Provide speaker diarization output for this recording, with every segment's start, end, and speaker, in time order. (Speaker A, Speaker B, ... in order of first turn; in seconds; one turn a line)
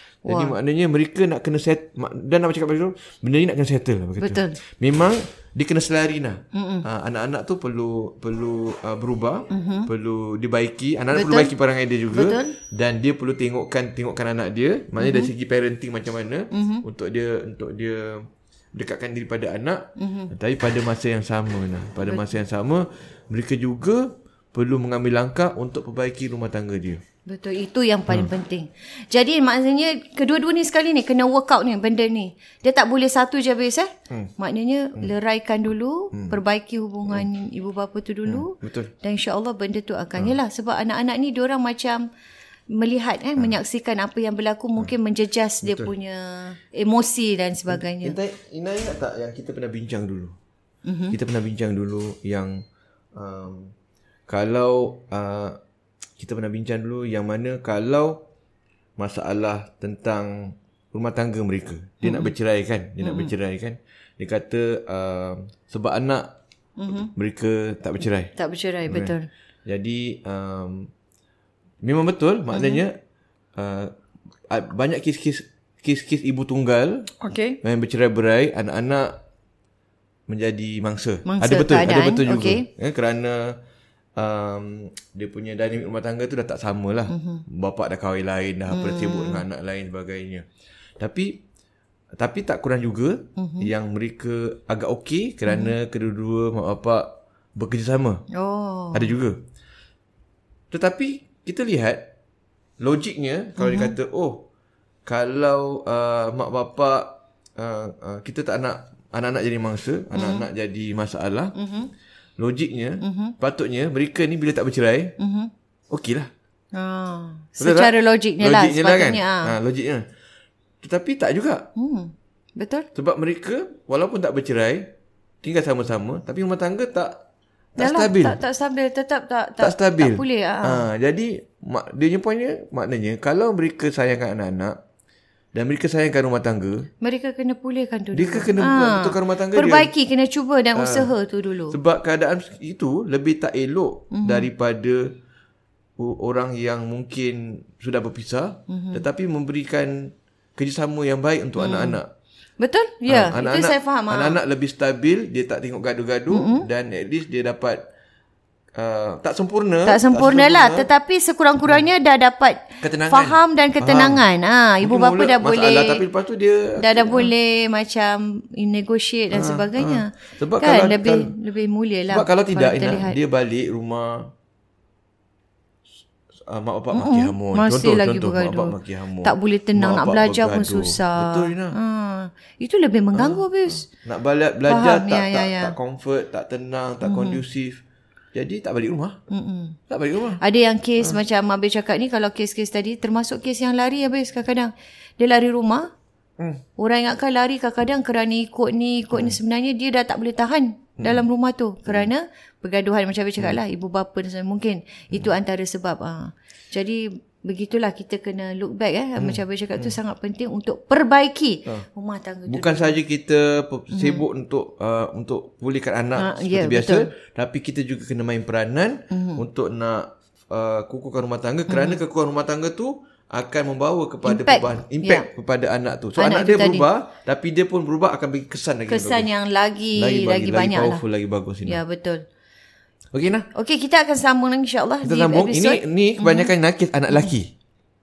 Speaker A: 0.3-0.6
Speaker B: 0.3-27.0
Speaker A: 4.2-4.6
Speaker A: 6.5-6.9
Speaker A: 9.5-9.9
Speaker A: 11.1-11.5
Speaker A: 12.1-12.6
Speaker A: 15.0-15.3
Speaker A: 16.5-16.8
Speaker A: 20.0-20.3
Speaker A: 22.1-22.4
Speaker A: 27.3-42.0
Speaker B: 36.1-36.4
Speaker B: 38.3-38.9
Speaker A: 42.7-48.2
Speaker B: 45.6-45.9
Speaker B: 47.7-50.4
Speaker A: 50.9-51.2
Speaker B: 51.1-52.6
Speaker B: 53.2-53.7
Speaker B: 54.3-55.6
Speaker B: 56.2-58.2
Speaker B: 59.0-66.3
Speaker A: 62.0-62.3
Speaker A: 63.0-63.3
Speaker A: 66.8-67.1
Speaker B: 66.9-68.3
Speaker A: 68.3-69.3
Speaker B: 68.9-69.1
Speaker B: 69.7-70.9
Speaker B: 71.8-73.0
Speaker A: 72.5-72.8
Speaker B: 73.6-73.9
Speaker B: 74.5-77.1
Speaker A: 77.2-77.6
Speaker B: 77.6-79.1
Speaker B: 80.3-83.6
Speaker A: 81.3-82.7
Speaker B: 84.2-90.5
Speaker A: 87.1-87.4
Speaker A: 88.7-89.4
Speaker B: 91.0-91.4
Speaker B: 92.2-98.2
Speaker A: 93.4-93.7
Speaker A: 95.5-95.7
Speaker A: 98.3-99.1
Speaker B: 98.9-99.4
Speaker B: 100.7-102.1
Speaker B: 102.8-104.5
Speaker A: 103.6-104.0
Speaker B: 105.1-111.5
Speaker A: 110.1-110.5
Speaker A: 111.5-111.9
Speaker B: 112.4-115.2
Speaker A: 113.0-113.3
Speaker A: 115.2-115.5
Speaker B: 115.9-116.3
Speaker A: 116.7-119.5
Speaker B: 117.6-120.0
Speaker B: 120.8-121.7
Speaker A: 121.8-122.9
Speaker B: 123.0-124.9
Speaker B: 125.4-127.2
Speaker B: 127.8-128.4
Speaker A: 127.8-130.9
Speaker B: 129.6-134.8
Speaker B: 135.5-136.9
Speaker A: 137.0-141.8
Speaker B: 138.1-139.9
Speaker B: 140.8-141.1
Speaker B: 141.7-145.1
Speaker A: 144.1-144.5
Speaker B: 146.0-152.1
Speaker A: 148.7-149.0
Speaker A: 151.6-152.0
Speaker A: 152.6-154.4
Speaker B: 153.1-157.9
Speaker A: 156.3-156.7
Speaker B: 158.8-160.9
Speaker A: 159.9-166.0
Speaker B: 162.8-164.2
Speaker B: 164.8-167.3
Speaker A: 166.8-173.2
Speaker B: 169.3-171.3
Speaker B: 172.1-174.3
Speaker B: 176.4-181.8
Speaker A: 176.9-183.9
Speaker B: 183.2-187.8
Speaker A: 184.7-185.8
Speaker A: 187.0-187.4
Speaker B: 188.3-189.2
Speaker A: 189.3-189.8
Speaker B: 189.9-190.4
Speaker A: 190.4-195.9
Speaker A: 196.8-213.0
Speaker B: 199.1-199.4
Speaker B: 201.0-201.2
Speaker B: 201.9-202.1
Speaker B: 209.2-210.0
Speaker B: 212.5-229.3
Speaker A: 213.9-214.2
Speaker A: 216.2-217.1
Speaker A: 219.1-219.4
Speaker A: 221.7-222.0
Speaker A: 224.2-225.3
Speaker A: 226.2-226.9
Speaker A: 228.9-231.0
Speaker B: 230.0-231.8
Speaker A: 231.7-232.2
Speaker B: 233.1-233.5
Speaker A: 233.5-236.5
Speaker B: 235.0-237.5